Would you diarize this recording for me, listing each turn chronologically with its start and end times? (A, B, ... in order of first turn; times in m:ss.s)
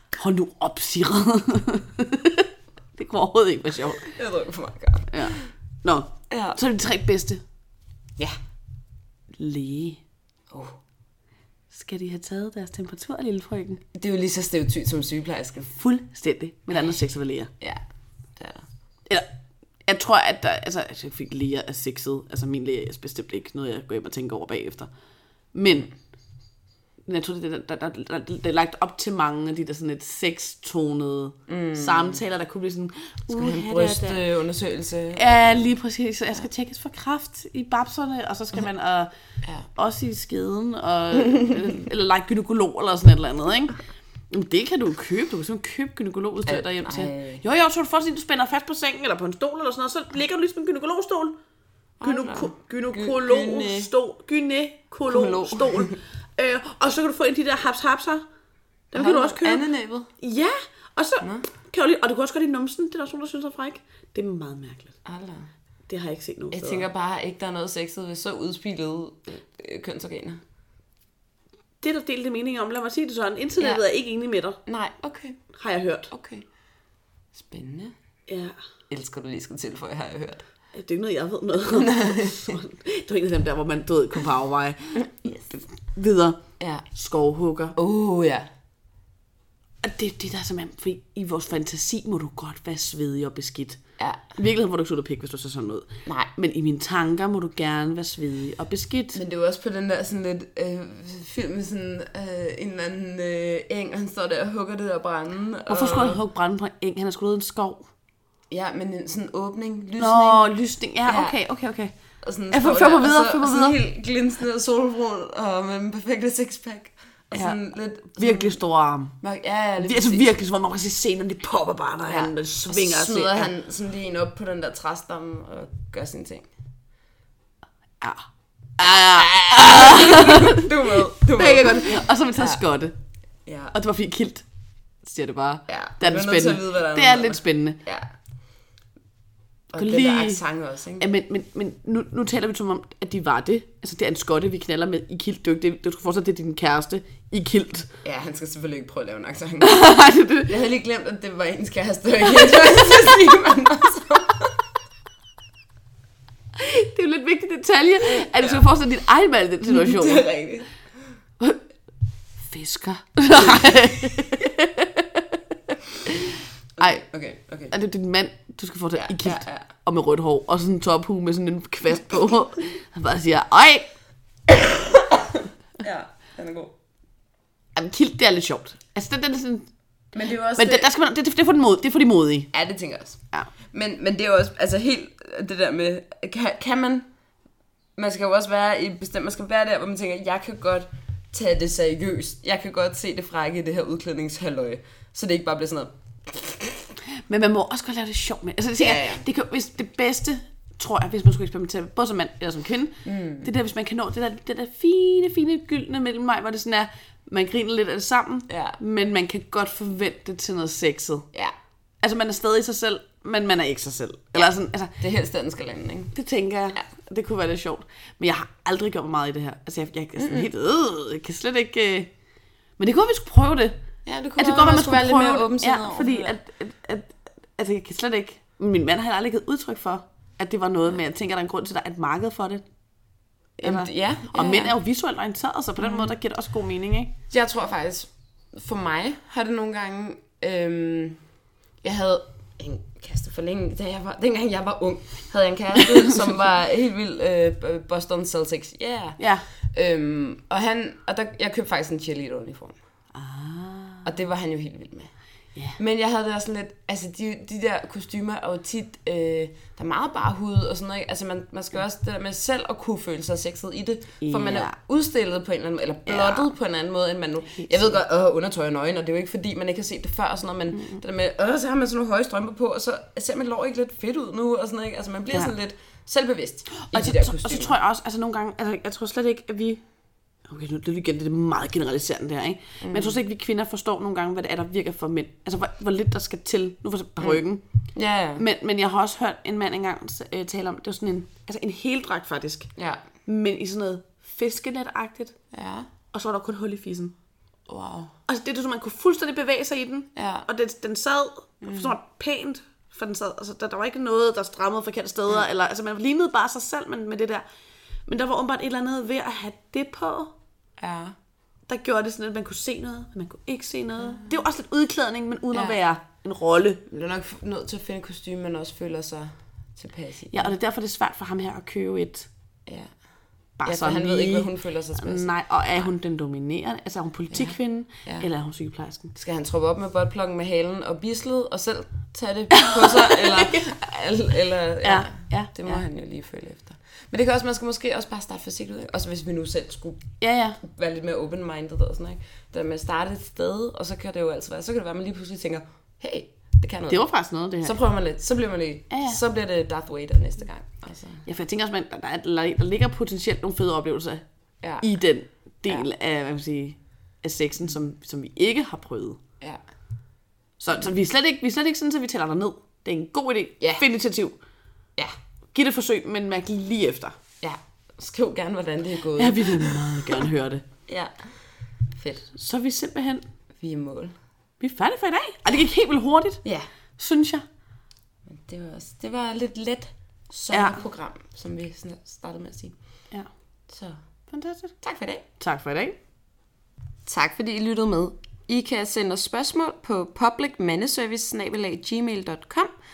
0:00.2-0:04.1 A
0:03.9-0:05.5 B
0:05.1-0:07.4 A
0:06.3-0:06.6 B
0:09.4-0:10.0 A
0:10.5-0:10.8 B
0:11.7-0:13.8 A
0:13.9-0:15.7 B
0:15.7-0:17.5 A
0:16.7-0:17.0 B
0:18.4-0:18.7 B
0:19.9-0:24.9 A
0:25.5-0:25.9 A
0:27.1-0:34.2 A
0:31.5-0:32.2 B
0:33.3-0:35.7 B
0:35.2-0:39.1 A
0:39.8-0:51.3 A
0:41.3-0:41.6 B
0:46.4-0:47.4 B
0:52.0-0:53.9 B
0:52.0-0:58.2 A
0:55.1-0:56.0 B
0:58.9-0:59.6 A
0:59.0-1:00.1 B
1:00.2-1:05.0 A
1:05.0-1:05.5 B
1:05.9-1:06.9 A
1:06.5-1:10.4 B
1:11.8-1:14.6 A
1:14.7-1:15.4 B
1:15.5-1:16.1 A
1:16.1-1:16.5 B
1:17.3-1:18.0 B
1:18.3-1:18.6 A
1:18.9-1:20.4 B
1:20.7-1:26.4 A
1:21.7-1:22.6 B
1:26.6-1:26.8 B
1:26.9-1:27.8 A
1:27.8-1:28.5 B
1:29.8-1:33.8 A
1:34.4-1:39.2 A
1:39.1-1:46.2 B
1:45.7-1:47.9 A
1:48.5-1:50.5 B
1:50.0-1:51.9 A
1:51.0-1:51.4 B
1:52.2-1:58.6 B
1:52.5-1:53.8 A
1:58.2-1:59.1 A
1:59.2-2:00.3 B
1:59.8-2:03.5 A
2:02.1-2:06.5 B
2:08.0-2:08.3 A
2:08.8-2:12.9 A
2:08.8-2:12.6 B
2:13.5-2:13.7 B
2:13.7-2:14.5 A
2:15.0-2:17.8 A
2:15.7-2:18.1 B
2:19.7-2:20.4 A
2:19.7-2:21.1 B
2:21.0-2:27.9 A
2:28.0-2:29.9 B
2:29.6-2:30.5 A
2:30.4-2:34.7 B
2:36.6-2:40.2 A
2:38.4-2:38.6 B
2:39.7-2:40.7 B
2:42.4-2:47.0 A
2:46.8-2:47.7 B
2:47.7-2:53.9 A
2:49.0-2:49.7 B
2:54.5-2:56.8 B
2:57.8-2:59.7 A
3:00.1-3:00.9 B
3:00.6-3:02.5 A
3:02.5-3:03.2 B
3:03.7-3:07.1 B
3:08.0-3:16.9 B
3:17.3-3:31.3 A
3:18.8-3:19.2 B
3:23.0-3:23.5 B
3:28.5-3:28.8 B
3:32.0-3:34.9 A
3:34.3-3:36.1 B
3:36.1-3:42.1 A
3:40.2-3:40.5 B
3:42.8-3:43.8 A
3:44.0-3:46.4 B
3:44.4-3:52.6 A
3:53.6-3:54.8 B
3:53.6-3:57.1 A
3:55.8-3:56.1 B
3:57.3-4:01.2 B
4:01.8-4:09.2 B
4:09.2-4:09.4 A
4:09.7-4:12.8 B
4:13.1-4:14.1 A
4:14.0-4:15.1 B
4:15.8-4:37.8 B
4:24.2-4:24.8 A
4:26.1-4:26.5 A
4:27.5-4:28.0 A
4:36.8-4:39.8 A
4:40.5-4:47.6 A
4:42.8-4:43.2 B
4:48.0-4:48.4 B
4:48.4-4:52.7 A
4:52.8-4:53.0 B
4:53.3-4:55.4 A
4:55.5-4:55.9 B
4:56.1-4:57.1 A
4:57.7-4:58.1 B
4:58.3-5:07.4 A
5:00.2-5:00.5 B
5:01.6-5:02.0 B
5:08.1-5:10.3 A
5:10.8-5:11.2 B
5:11.7-5:16.8 A
5:16.9-5:20.5 B
5:20.3-5:22.3 A
5:22.7-5:22.9 B
5:23.6-5:29.2 A
5:23.7-5:25.8 B
5:27.3-5:28.3 B
5:29.2-5:40.1 B
5:32.5-5:33.7 A
5:34.8-5:35.8 A
5:40.2-5:40.6 A
5:40.6-5:47.0 B
5:46.9-5:47.8 A
5:47.6-5:51.2 B
5:48.9-5:49.2 A
5:51.3-5:54.2 A
5:54.8-5:59.2 A
6:00.6-6:04.4 A
6:03.6-6:03.8 B
6:05.5-6:07.2 A
6:07.4-6:10.3 B
6:09.2-6:10.7 A
6:10.9-6:11.1 B
6:11.9-6:12.3 B
6:12.3-6:13.3 A
6:13.6-6:14.1 B
6:14.6-6:16.4 A
6:17.0-6:17.4 A
6:18.3-6:22.8 B
6:20.5-6:20.8 A
6:23.7-6:24.0 B
6:24.3-6:24.7 A
6:24.8-6:25.3 B
6:25.4-6:26.0 A
6:27.1-6:32.7 B